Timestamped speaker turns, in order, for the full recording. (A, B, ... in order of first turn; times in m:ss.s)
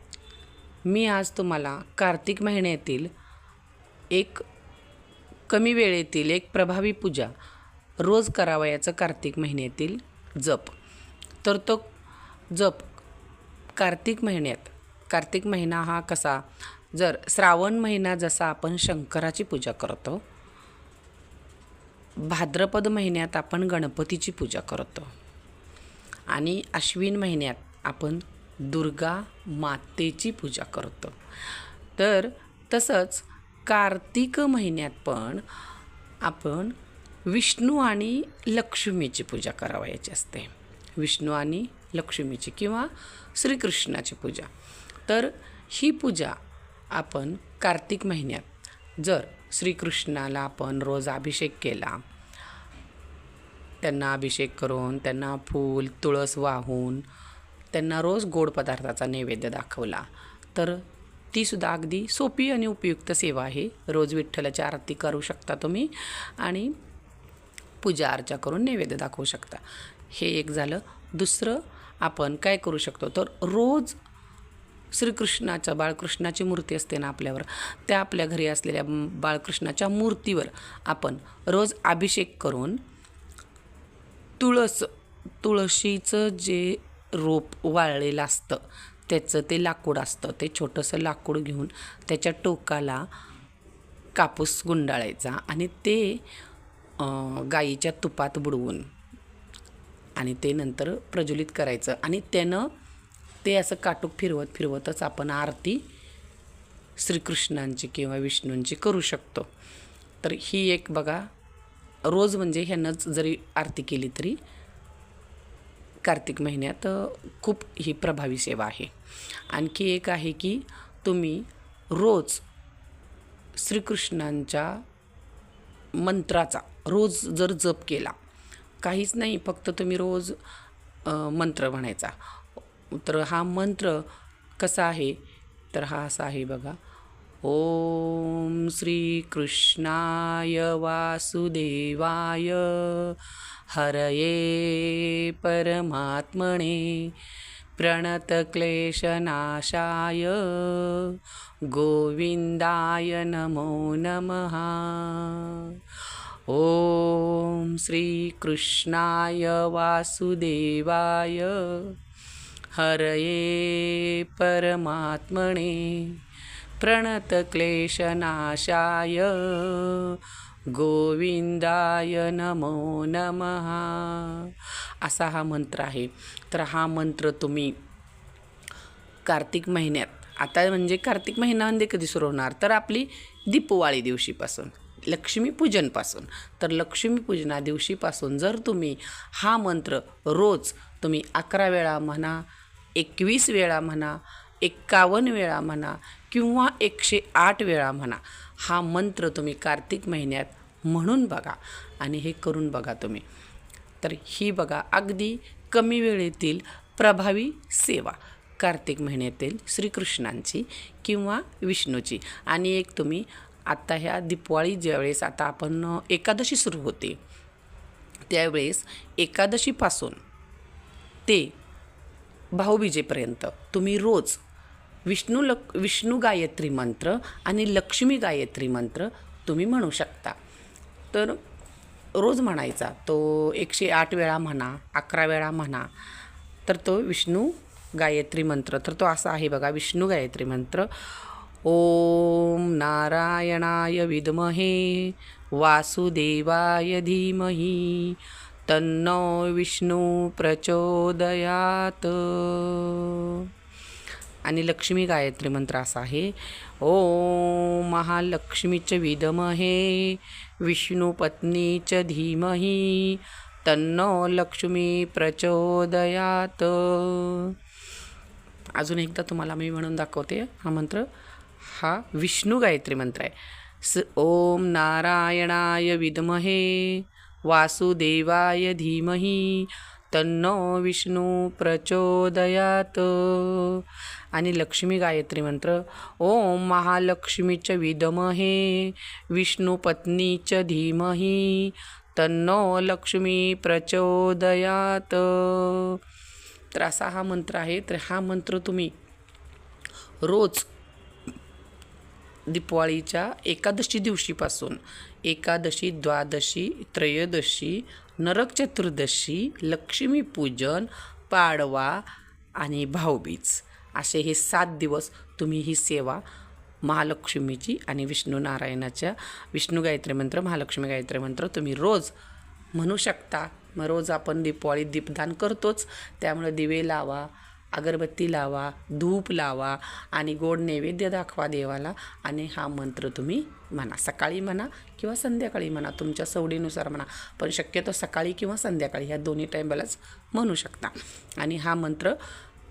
0:00.9-0:03.1 A
0:04.1-0:04.4 A
0:05.5-0:07.3 A
0:08.0-0:10.8 A
0:11.4-0:11.9 A
0:12.5-0:13.0 A
0:13.8-0:20.2 A
0:22.2-0:25.1 A
0:26.3-0:31.2 A
0:32.0-0:35.4 A
0:36.2-0:36.8 A
0:37.3-0:44.5 A
0:45.1-0:46.4 A
0:46.9-0:48.5 A
0:49.0-0:52.0 A
0:53.8-0:57.0 A
0:57.7-1:06.7 A
1:07.8-1:14.0 A
1:14.9-1:22.8 A
1:24.4-1:33.0 A
1:34.2-1:36.2 A
1:37.0-1:38.9 A
1:40.2-1:42.7 A
1:43.4-1:45.8 A
1:47.0-1:49.5 A
1:50.2-1:51.3 A
1:52.1-1:54.4 A
1:56.0-1:58.9 A
1:59.5-2:02.4 A
2:03.6-2:04.8 A
2:06.0-2:08.2 A
2:08.8-2:10.4 A
2:11.0-2:12.2 A
2:12.9-2:14.1 A
2:14.6-2:15.2 A
2:15.7-2:16.8 A
2:17.4-2:23.2 A
2:23.7-2:27.2 A
2:27.8-2:35.8 A
2:36.5-2:42.0 A
2:42.7-2:46.2 A
2:46.8-2:57.8 A
2:59.3-3:12.4 A
3:13.0-3:23.2 A
3:24.0-3:37.2 A
3:38.3-3:40.2 A
3:41.3-3:41.6 A
3:42.6-3:44.4 A
3:45.1-3:50.4 A
3:51.1-3:51.4 A
3:52.2-3:55.9 A
3:56.7-4:13.5 A
4:14.4-4:27.6 A
4:28.8-4:31.1 A
4:31.6-4:56.0 A
4:56.7-4:58.9 A
5:00.2-5:00.7 A
5:02.5-5:12.0 A
5:12.6-5:16.2 A
5:16.8-5:22.1 A
5:22.8-5:42.2 A